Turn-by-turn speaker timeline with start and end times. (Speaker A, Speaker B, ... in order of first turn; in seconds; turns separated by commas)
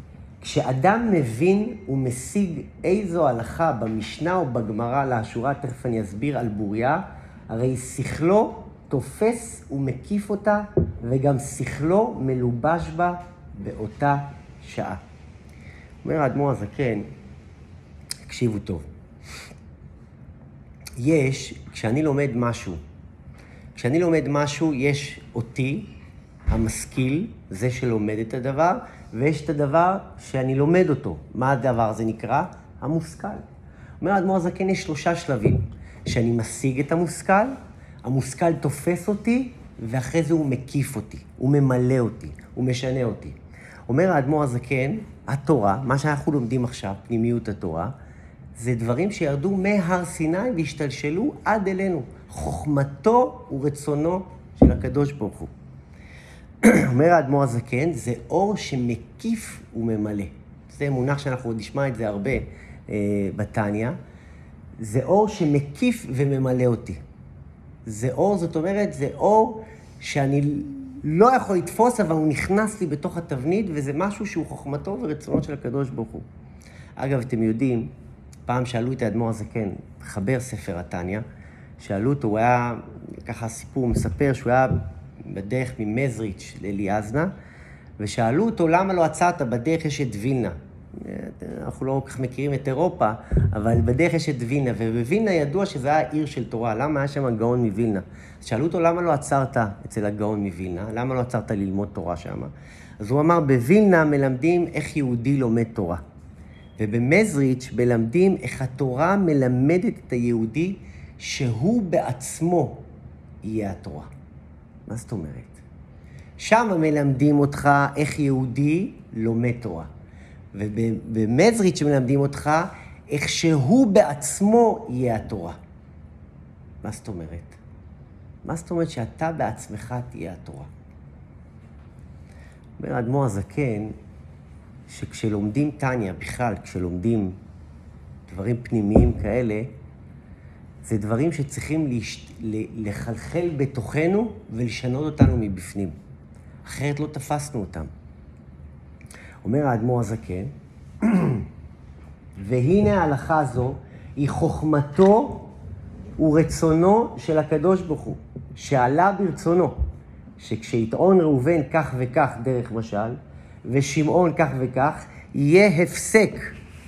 Speaker A: 0.4-15.0, Speaker A: 16.0-17.0, Speaker A: 18.2-18.9, Speaker A: 21.0-22.8, Speaker A: 23.8-25.9, Speaker A: 26.5-33.4, Speaker A: 34.0-43.4, Speaker A: 43.9-47.9, Speaker A: 48.6-55.5, Speaker A: 56.6-64.0, Speaker A: 64.8-67.0, Speaker A: 67.8-76.2, Speaker A: 77.0-77.9, Speaker A: 78.5-81.2, Speaker A: 81.8-87.3, Speaker A: 88.0-106.0, Speaker A: 106.8-112.8, Speaker A: 113.4-114.1, Speaker A: 114.9-115.6, Speaker A: 116.4-119.9, Speaker A: 120.5-125.6, Speaker A: 126.8-127.6, Speaker A: 128.4-130.7, Speaker A: 132.8-133.9, Speaker A: 134.9-137.4, Speaker A: 138.3-139.7, Speaker A: 140.8-145.9, Speaker A: 146.6-147.9, Speaker A: 149.4-151.5, Speaker A: 152.4-155.5, Speaker A: 156.2-159.8, Speaker A: 160.4-166.5